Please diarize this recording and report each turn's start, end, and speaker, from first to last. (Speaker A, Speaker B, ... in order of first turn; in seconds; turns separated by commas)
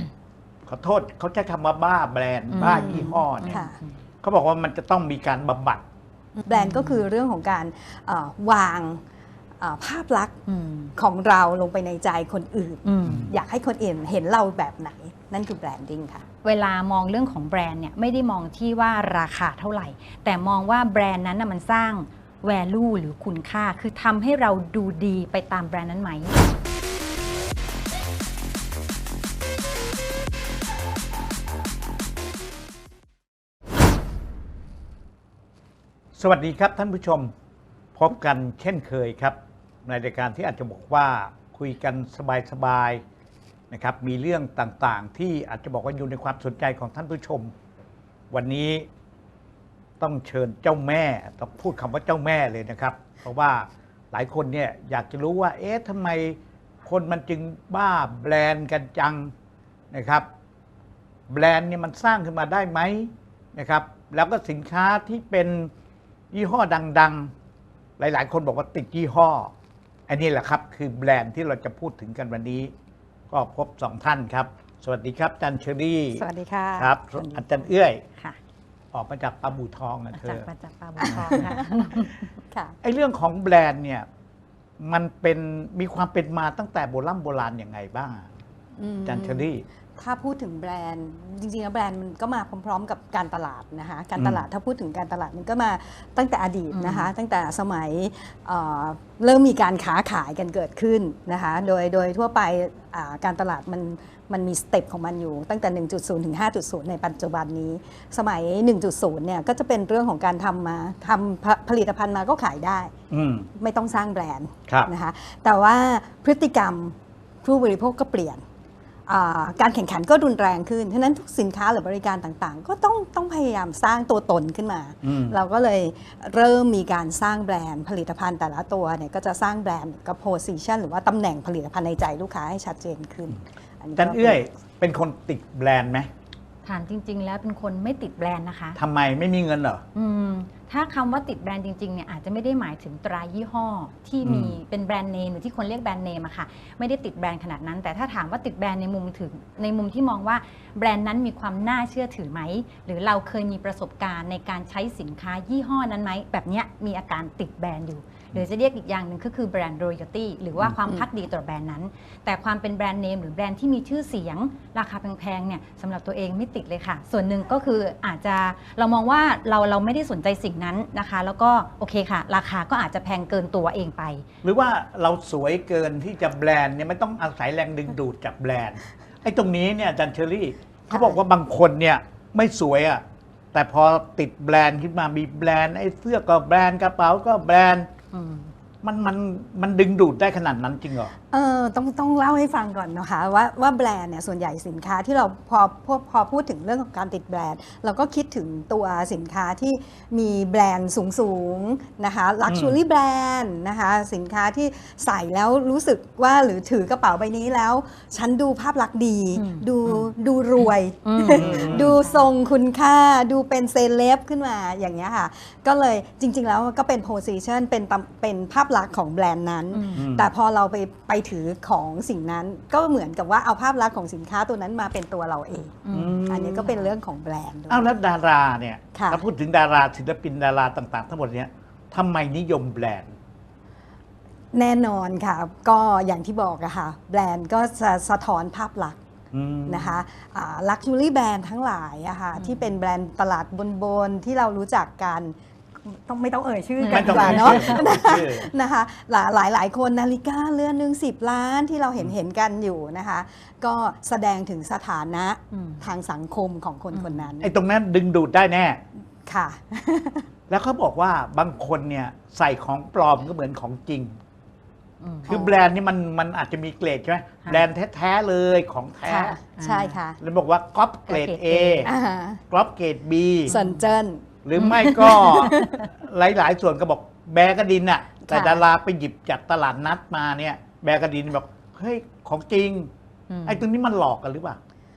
Speaker A: 0.6-3.6, Speaker B: 2.5-3.8, Speaker C: 2.6-3.8, Speaker A: 4.2-5.8, Speaker C: 6.4-9.0, Speaker B: 6.5-7.0, Speaker C: 9.6-10.4, Speaker B: 10.5-10.9, Speaker C: 11.0-16.2, Speaker B: 12.8-13.3, Speaker A: 13.1-13.3, Speaker B: 16.4-26.3, Speaker A: 36.1-37.3, Speaker A: 38.0-43.0, Speaker A: 43.7-47.5, Speaker A: 48.3-48.9, Speaker A: 50.0-59.3, Speaker A: 59.9-60.3, Speaker A: 61.3-65.7, Speaker A: 66.3-67.3, Speaker A: 68.0-69.5, Speaker A: 70.1-72.7, Speaker A: 73.3-76.2, Speaker C: 76.2-77.5, Speaker A: 76.8-78.0, Speaker A: 78.9-80.5, Speaker B: 80.2-82.2, Speaker C: 81.0-82.8, Speaker A: 81.1-81.4, Speaker A: 82.8-84.1, Speaker A: 84.8-88.3, Speaker C: 88.8-112.9, Speaker A: 89.1-89.7, Speaker A: 94.2-94.4, Speaker B: 96.7-97.1, Speaker A: 113.1-113.5, Speaker C: 113.6-118.4, Speaker C: 119.1-134.4, Speaker A: 125.0-125.4, Speaker A: 134.0-136.1, Speaker B: 136.7-138.8, Speaker A: 138.8-139.8, Speaker B: 139.9-174.2, Speaker A: 144.2-144.6, Speaker A: 174.4-183.0, Speaker C: 180.9-181.2, Speaker A: 183.5-187.9, Speaker B: 188.1-188.5, Speaker A: 188.8-191.1, Speaker C: 191.3-227.9, Speaker A: 202.5-202.8, Speaker B: 209.3-210.1, Speaker B: 211.1-212.3, Speaker A: 211.3-212.0, Speaker B: 219.7-220.1, Speaker A: 220.0-220.3, Speaker B: 225.8-226.2, Speaker A: 225.9-226.8, Speaker A: 227.7-233.2, Speaker C: 228.9-229.2, Speaker C: 234.5-239.0, Speaker A: 239.3-240.0, Speaker C: 239.7-257.5, Speaker B: 242.4-242.7, Speaker B: 246.8-247.8, Speaker A: 246.9-248.5, Speaker B: 255.5-255.9, Speaker B: 256.9-257.3, Speaker A: 257.4-258.8, Speaker C: 259.3-260.3, Speaker A: 260.5-264.2, Speaker B: 265.0-265.3, Speaker A: 265.3-269.4, Speaker C: 265.3-265.6, Speaker C: 269.0-270.2, Speaker B: 269.6-270.0, Speaker A: 270.2-271.9, Speaker B: 271.1-271.9, Speaker C: 271.8-272.4, Speaker A: 272.5-273.5, Speaker B: 273.5-273.8, Speaker C: 273.5-274.2, Speaker A: 274.4-282.9, Speaker B: 274.6-275.6, Speaker C: 274.8-275.8, Speaker C: 278.3-278.6, Speaker B: 283.3-283.6, Speaker A: 283.4-284.6